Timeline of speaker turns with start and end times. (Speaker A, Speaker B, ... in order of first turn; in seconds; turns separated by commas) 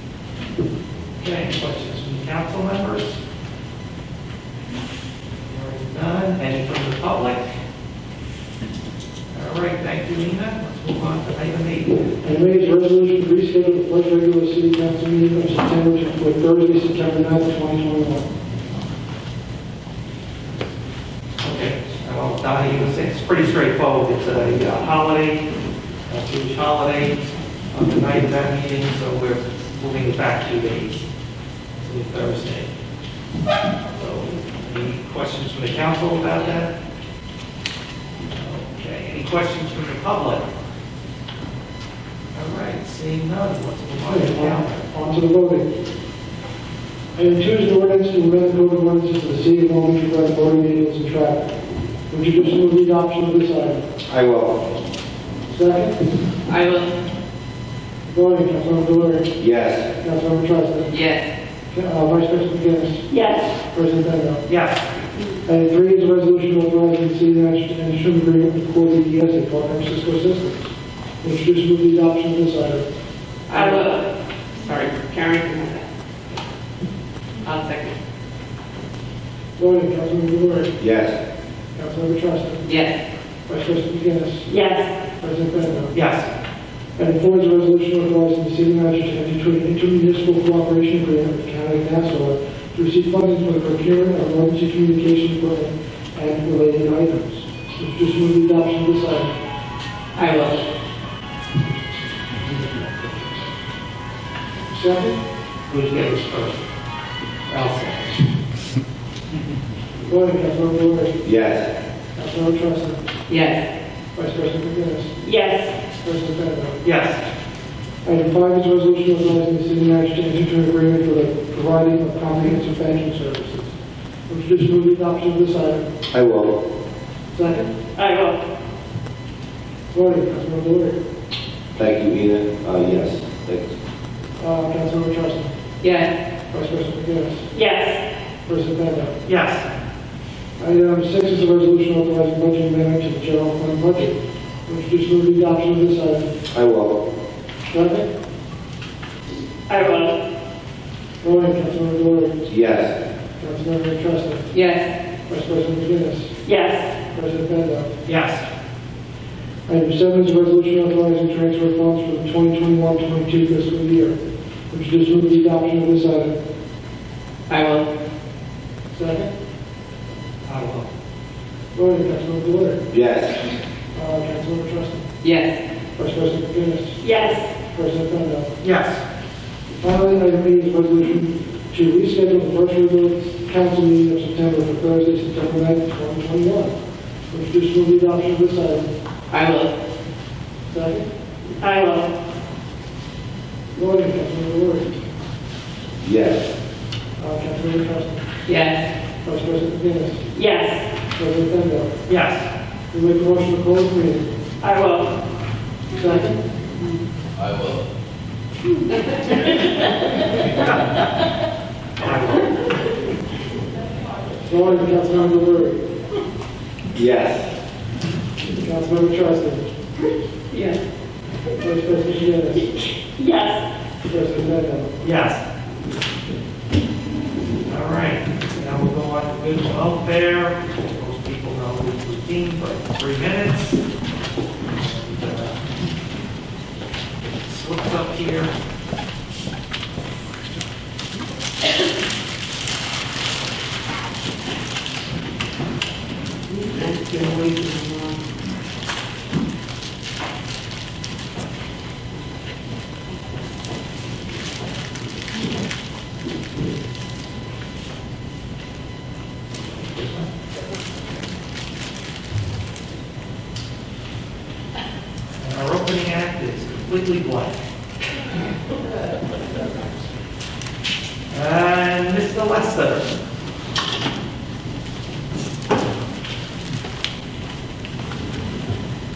Speaker A: 1.2-3.2, Speaker A: 5.5-7.5, Speaker A: 9.3-12.1, Speaker B: 12.2-18.3, Speaker A: 21.4-25.5, Speaker A: 26.1-31.1, Speaker A: 31.8-32.7, Speaker A: 33.9-36.7, Speaker A: 38.3-40.5, Speaker A: 42.4-44.9, Speaker B: 44.0-45.7, Speaker B: 47.1-51.5, Speaker B: 52.1-53.9, Speaker C: 54.1-54.6, Speaker B: 55.5-56.0, Speaker D: 56.5-56.9, Speaker B: 58.0-59.3, Speaker C: 59.4-59.9, Speaker B: 60.0-61.0, Speaker D: 60.9-61.3, Speaker B: 61.7-63.0, Speaker E: 63.1-63.5, Speaker B: 63.7-64.4, Speaker A: 64.5-64.9, Speaker B: 65.5-70.7, Speaker B: 71.2-72.8, Speaker D: 73.5-74.1, Speaker E: 73.5-73.8, Speaker D: 74.6-75.8, Speaker D: 77.4-78.0, Speaker B: 79.6-80.8, Speaker C: 80.8-81.2, Speaker B: 81.8-82.7, Speaker D: 82.7-83.0, Speaker B: 83.5-84.5, Speaker E: 84.5-85.0, Speaker B: 85.2-86.0, Speaker A: 85.9-86.3, Speaker B: 87.0-99.3, Speaker D: 100.2-100.7, Speaker B: 102.5-103.2, Speaker B: 104.7-105.2, Speaker A: 105.7-106.7, Speaker A: 107.5-108.2, Speaker B: 110.1-111.2, Speaker C: 111.2-111.7, Speaker B: 112.2-113.0, Speaker D: 113.3-113.7, Speaker B: 114.2-115.2, Speaker E: 115.2-115.8, Speaker B: 116.0-116.8, Speaker A: 116.8-117.2, Speaker B: 118.0-123.8, Speaker B: 124.3-125.9, Speaker C: 126.1-126.5, Speaker B: 127.3-127.7, Speaker E: 128.0-128.4, Speaker B: 129.9-131.0, Speaker C: 131.8-133.7, Speaker B: 134.4-135.5, Speaker D: 135.8-136.1, Speaker B: 136.5-137.5, Speaker E: 137.5-138.0, Speaker B: 138.5-139.2, Speaker A: 139.2-139.7, Speaker B: 140.6-146.3, Speaker C: 146.5-147.0, Speaker B: 147.7-148.1, Speaker E: 149.7-150.2, Speaker B: 151.2-152.4, Speaker C: 152.5-152.9, Speaker B: 153.4-154.5, Speaker D: 154.5-154.9, Speaker B: 155.3-156.4, Speaker E: 156.5-156.9, Speaker B: 157.1-157.9, Speaker A: 158.1-158.4, Speaker B: 159.7-164.2, Speaker B: 164.7-166.4, Speaker D: 167.5-167.9, Speaker B: 168.9-169.3, Speaker A: 170.4-170.9, Speaker B: 171.7-172.8, Speaker C: 172.9-173.4, Speaker B: 173.9-175.1, Speaker D: 175.2-175.6, Speaker B: 176.0-177.0, Speaker E: 177.0-177.5, Speaker B: 177.7-178.5, Speaker A: 178.6-179.0, Speaker B: 179.8-186.8, Speaker B: 187.3-188.9, Speaker D: 189.3-189.7, Speaker B: 190.7-191.1, Speaker E: 191.6-192.1, Speaker B: 193.8-195.0, Speaker C: 196.0-196.5, Speaker B: 197.2-198.3, Speaker D: 198.5-198.9, Speaker B: 199.2-200.3, Speaker E: 200.3-200.9, Speaker B: 201.1-201.9, Speaker A: 202.1-202.5, Speaker B: 202.9-204.3, Speaker E: 204.6-205.1, Speaker B: 205.9-206.4, Speaker A: 212.0-212.5, Speaker B: 214.4-215.8, Speaker C: 216.9-217.5, Speaker B: 218.5-219.7, Speaker D: 220.5-220.8, Speaker B: 221.6-222.7, Speaker E: 223.2-223.7, Speaker B: 224.0-224.9, Speaker A: 225.0-225.4, Speaker A: 227.7-233.8, Speaker A: 234.7-235.6, Speaker A: 237.4-238.5, Speaker D: 246.6-248.2, Speaker A: 259.7-260.3, Speaker A: 265.4-267.6, Speaker A: 271.3-273.1